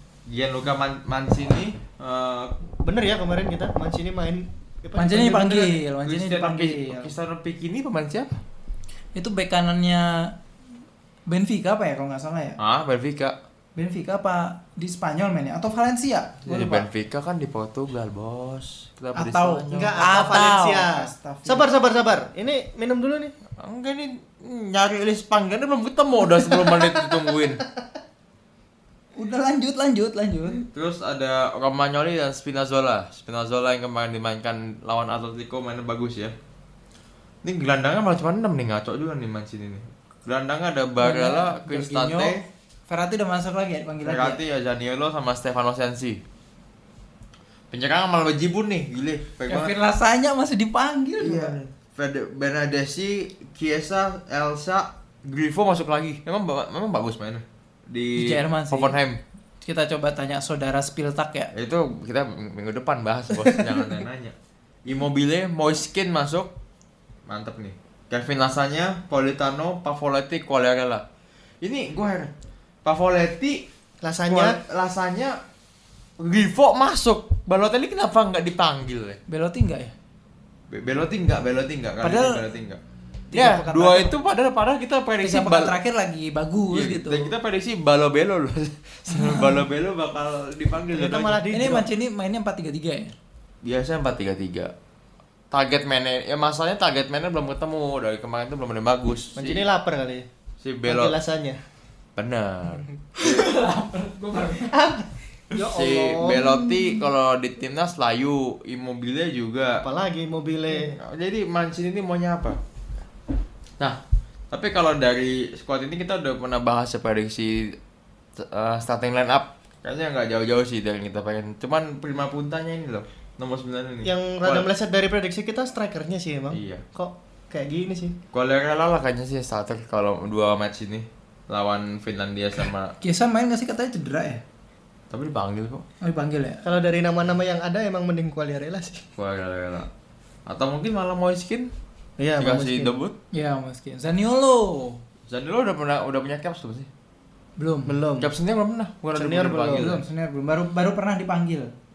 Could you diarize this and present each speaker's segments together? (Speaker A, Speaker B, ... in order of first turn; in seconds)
Speaker A: 0.3-2.5, 6.0-8.4, 12.6-13.4, 16.5-20.2, 23.6-27.6, 30.7-36.3, 37.4-42.4, 44.0-46.2, 47.7-49.7, 51.2-59.2, 61.5-64.3, 64.8-66.5, 67.3-71.0, 71.6-72.3, 72.8-73.7, 74.3-75.4, 76.2-79.2, 80.7-82.8, 83.3-85.7, 86.7-91.4, 93.6-94.7, 95.5-99.7, 100.6-101.2, 102.2-103.5, 105.6-109.8, 110.8-112.6, 114.5-117.8, 118.4-124.7, 126.5-126.8, 128.3-132.9, 135.1-135.8, 139.2-139.9, 140.5-141.7, 142.4-143.2, 145.3-146.9, 148.2-150.0
Speaker B: 2.8-5.7, 19.7-23.3, 26.5-27.0, 74.0-74.6, 90.9-91.8, 99.4-100.3, 100.9-101.6, 104.7-106.7, 109.8-111.0, 124.0-128.2, 136.6-139.1, 142.2-142.9, 147.9-148.3, 149.1-149.9
Speaker C: 5.0-7.1, 9.2-10.3, 11.3-12.6, 13.8-16.9, 19.2-21.7, 29.2-30.6, 41.0-44.4, 49.5-51.6, 58.2-59.0, 59.6-61.5, 79.3-79.9, 82.0-82.4, 83.3-84.2, 85.2-87.3, 89.1-89.6, 91.5-93.2, 103.2-104.8, 133.0-134.4, 136.0-136.6, 143.3-145.0, 147.6-148.0, 149.7-151.7